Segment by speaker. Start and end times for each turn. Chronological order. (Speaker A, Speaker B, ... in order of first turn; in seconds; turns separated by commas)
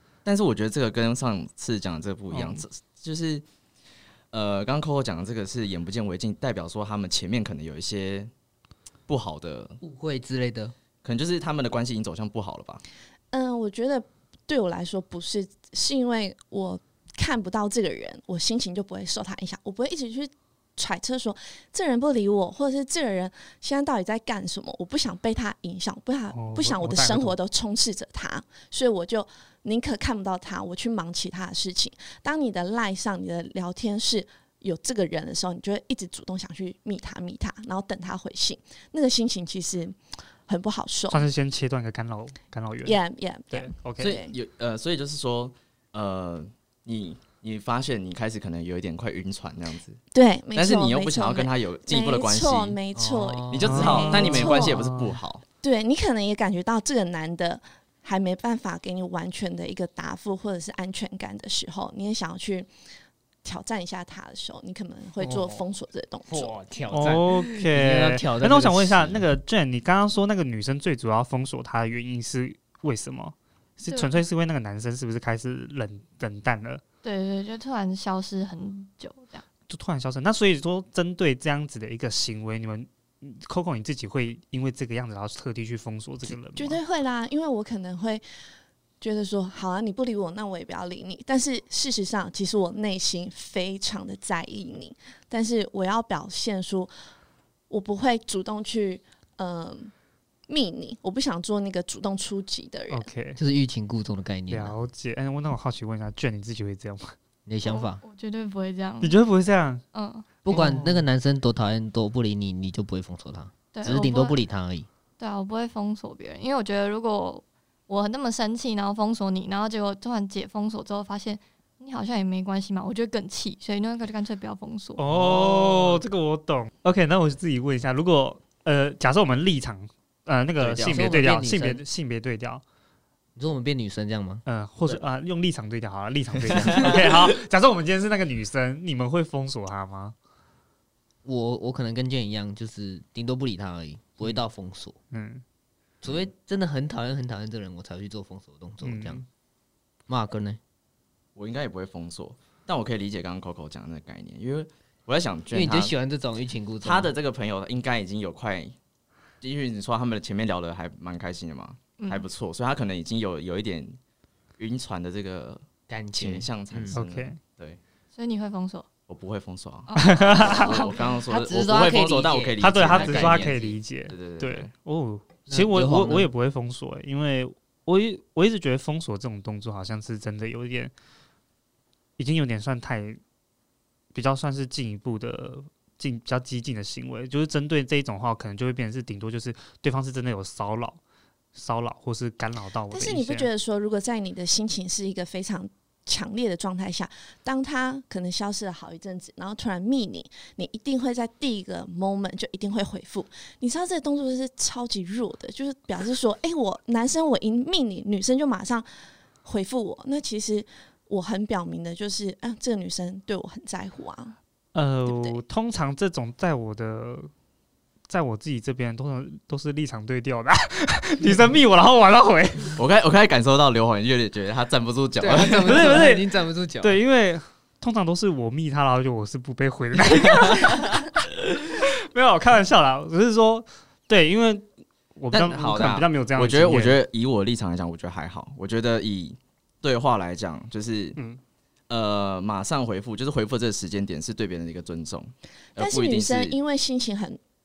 Speaker A: 0.2-3.4, Speaker B: 2.3-2.6, Speaker A: 4.3-8.3, Speaker A: 9.1-9.8, Speaker C: 9.8-10.7, Speaker A: 11.0-12.8, Speaker D: 13.3-41.2, Speaker B: 26.3-27.4, Speaker B: 41.1-43.0, Speaker D: 42.8-44.3, Speaker B: 43.5-44.1, Speaker A: 44.0-50.0, Speaker D: 50.1-54.9, Speaker A: 50.5-52.8, Speaker C: 52.9-54.7, Speaker A: 53.5-55.4, Speaker B: 53.6-54.7, Speaker D: 55.6-62.7, Speaker D: 63.4-66.6, Speaker C: 65.2-65.6, Speaker C: 66.3-69.2, Speaker B: 66.9-76.8, Speaker E: 73.9-74.2, Speaker E: 77.0-79.4, Speaker B: 79.7-86.8, Speaker D: 86.5-88.2, Speaker D: 89.0-96.9, Speaker D: 97.7-99.9, Speaker D: 100.5-103.1, Speaker B: 102.9-103.4, Speaker C: 103.3-104.8, Speaker B: 104.5-107.1, Speaker C: 107.5-108.0, Speaker E: 107.6-109.2, Speaker B: 109.0-109.8, Speaker E: 109.9-110.4, Speaker C: 110.4-114.9, Speaker B: 110.4-111.0, Speaker E: 113.7-114.4, Speaker E: 115.2-125.0, Speaker B: 125.0-132.6, Speaker C: 125.1-126.0, Speaker A: 130.6-131.2, Speaker C: 130.8-131.8, Speaker C: 133.3-134.4, Speaker B: 134.4-140.1, Speaker C: 136.6-137.0, Speaker C: 141.2-145.0, Speaker B: 145.1-145.4, Speaker C: 146.0-149.2, Speaker B: 148.8-149.2, Speaker C: 150.1-150.6, Speaker A: 151.3-155.9, Speaker C: 155.5-157.1, Speaker A: 156.8-158.7, Speaker A: 159.4-164.0, Speaker E: 162.0-162.2, Speaker A: 164.6-167.8, Speaker C: 165.9-167.0, Speaker B: 166.9-167.4, Speaker E: 168.1-168.8, Speaker A: 169.1-174.7, Speaker E: 169.9-171.1, Speaker B: 169.9-170.8, Speaker C: 171.2-173.7, Speaker B: 172.6-180.9, Speaker C: 175.5-176.3, Speaker B: 182.2-183.2, Speaker B: 184.1-191.0, Speaker B: 191.5-193.5, Speaker D: 192.9-208.9, Speaker D: 209.4-214.4, Speaker B: 214.7-217.3, Speaker D: 215.1-215.4, Speaker B: 218.1-222.8, Speaker A: 222.8-226.0, Speaker C: 225.2-227.0, Speaker B: 225.6-237.0, Speaker A: 235.3-241.2, Speaker A: 241.9-246.5, Speaker D: 245.8-247.4